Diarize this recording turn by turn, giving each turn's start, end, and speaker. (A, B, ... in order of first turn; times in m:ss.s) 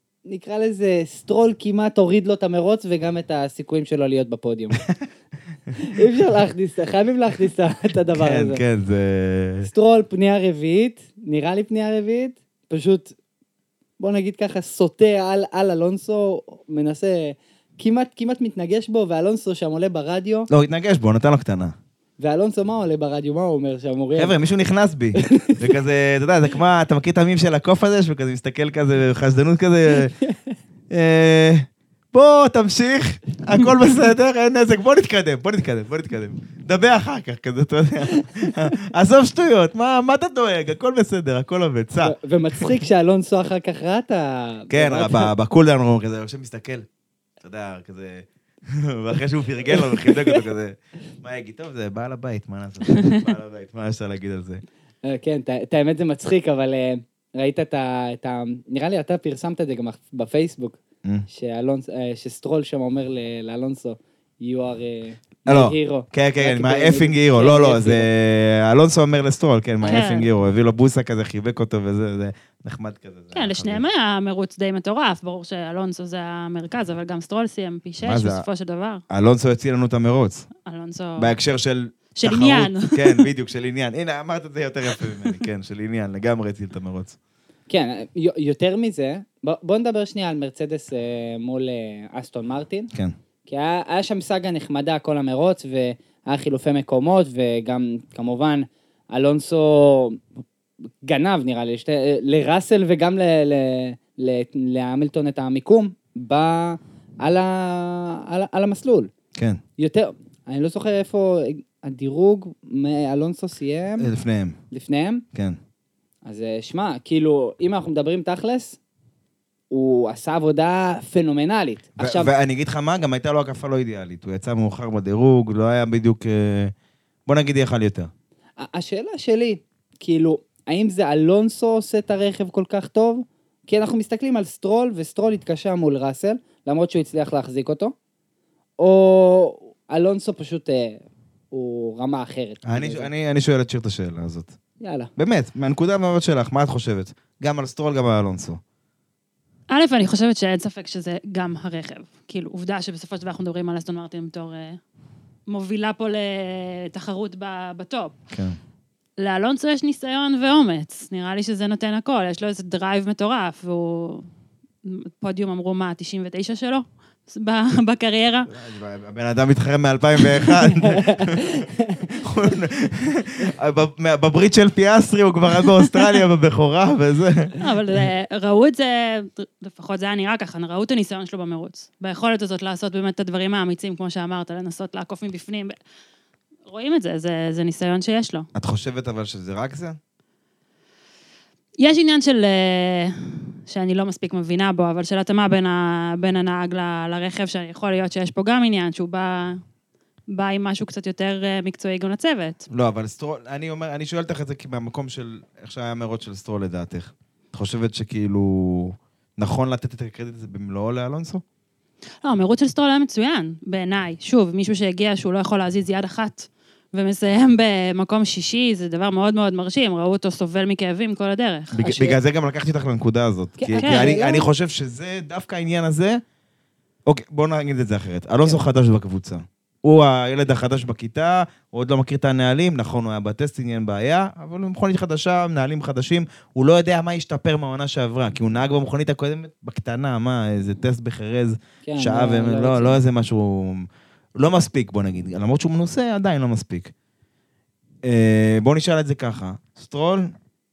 0:00.3-0:04.8 A
0:05.8-0:08.6 A
0:08.1-0:09.7 B
0:09.6-0:13.2 A
0:14.0-0:20.5 A
0:20.5-0:21.8 B
0:22.2-0:24.3 A
0:24.2-0:30.1 B
0:25.2-0:25.6 A
0:30.9-0:42.7 B
0:42.0-0:45.3 A
0:44.7-0:46.9 B
0:47.4-0:54.6 B
0:49.9-0:50.3 A
0:52.9-0:53.2 C
0:55.0-1:08.1 A
1:05.5-1:13.8 B
1:09.8-1:10.1 A
1:09.9-1:10.3 C
1:13.3-1:19.0 C
1:18.0-1:18.4 B
1:19.1-1:20.5 B
1:20.6-1:21.3 C
1:21.2-1:27.2 B
1:22.2-1:23.3 C
1:27.7-1:32.9 A
1:33.5-1:40.2 A
1:41.0-1:49.1 A
1:49.4-1:49.6 B
1:49.8-1:54.1 A
1:54.0-1:54.6 B
1:54.7-1:55.2 A
1:55.3-1:55.6 B
1:56.2-1:58.8 A
1:59.7-2:02.3 A
2:02.0-2:06.7 B
2:07.3-2:08.1 B
2:08.6-2:17.9 A
2:18.8-2:23.1 A
2:22.7-2:24.6 B
2:24.8-2:25.1 A
2:25.2-2:28.6 B
2:29.7-2:34.8 C
2:35.5-2:38.2 C
2:38.3-2:38.6 B
2:39.2-2:44.3 C
2:44.8-2:48.5 C
2:48.5-2:57.6 B
2:50.9-2:52.0 A
2:57.6-3:05.8 C
3:06.7-3:08.5 C
3:08.6-3:10.0 B
3:11.8-3:19.6 C
3:20.3-3:22.6 C
3:22.7-3:31.4 B
3:32.2-3:41.8 C
3:41.7-3:46.2 B
3:41.8-3:42.2 A
3:43.6-3:44.5 A
3:43.8-3:44.2 C
3:47.1-4:06.9 B
4:01.8-4:03.0 A
4:08.0-4:10.3 B